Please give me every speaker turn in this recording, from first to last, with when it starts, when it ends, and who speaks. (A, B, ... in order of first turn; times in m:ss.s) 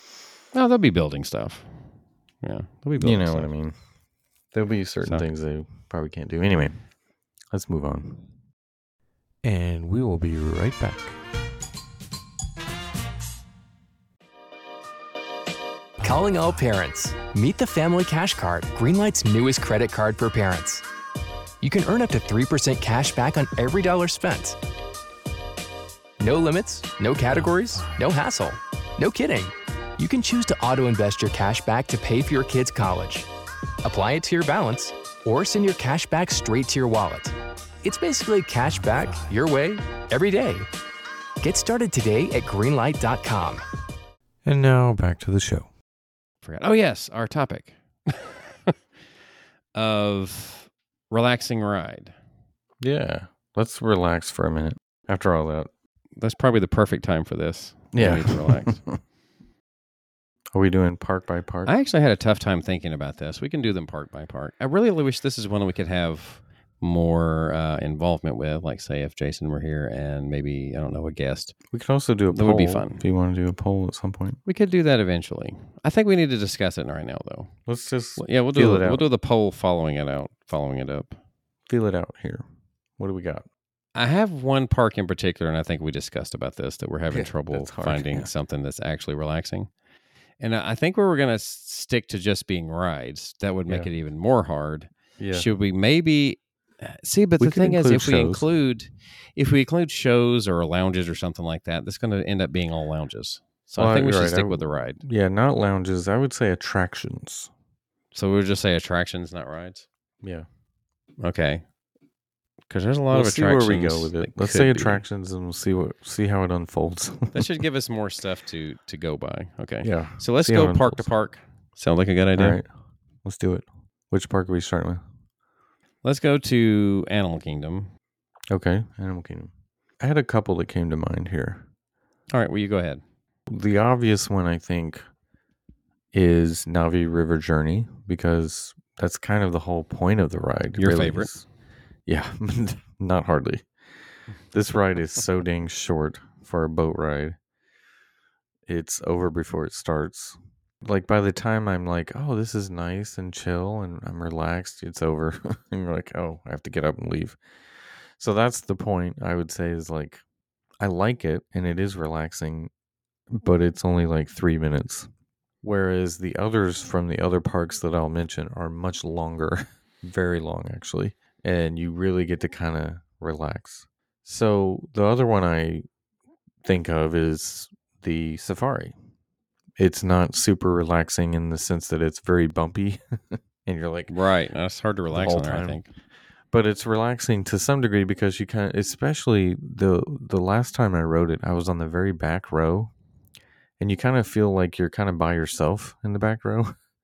0:00.5-0:01.8 A
0:02.4-0:03.5 A
0:03.0-0:03.8 B
0:04.5-0:06.8 B
0:07.5-0:08.3 B
0:09.4-0:11.2 B
0:16.0-0:16.3 B
0:16.0-0:20.8 C
0:21.6-0:24.6 C
0:26.2-0:33.3 C
0:27.4-0:27.9 B
0:33.8-0:40.7 C
0:38.8-0:39.4 B
0:41.4-0:43.6 C
0:44.4-0:45.7 B
0:46.4-0:48.8 A
0:49.8-0:52.2 A
0:52.8-0:55.7 B
0:56.2-0:58.8 A
0:57.9-0:59.0 B
1:00.5-1:01.7 B
1:01.7-1:11.6 A
1:11.7-1:14.4 B
1:12.3-1:13.0 A
1:14.5-1:17.5 A
1:17.7-1:19.1 B
1:18.2-1:21.2 A
1:21.7-1:22.4 B
1:23.0-1:23.5 B
1:24.0-1:29.7 A
1:27.1-1:28.3 B
1:30.4-1:45.0 A
1:35.2-1:35.5 B
1:37.4-1:38.5 B
1:43.8-1:47.5 B
1:48.1-1:49.9 A
1:50.2-1:50.5 B
1:51.2-1:51.6 A
1:52.7-1:55.0 A
1:53.1-1:57.5 B
1:57.3-2:02.6 A
1:59.8-2:01.1 B
2:02.4-2:02.7 B
2:03.2-2:05.0 B
2:06.0-2:07.9 A
2:08.5-2:11.7 B
2:12.3-2:13.0 A
2:13.5-2:15.0 B
2:16.1-2:21.4 B
2:20.8-2:21.3 A
2:22.1-2:23.7 B
2:24.5-2:27.4 B
2:28.7-2:37.4 B
2:38.2-2:40.2 B
2:40.8-2:42.7 B
2:43.3-2:45.1 B
2:45.6-2:55.8 B
2:56.6-2:59.0 B
2:59.8-3:04.1 B
3:04.1-3:05.9 A
3:05.1-3:05.8 B
3:06.5-3:12.9 B
3:13.8-3:16.8 B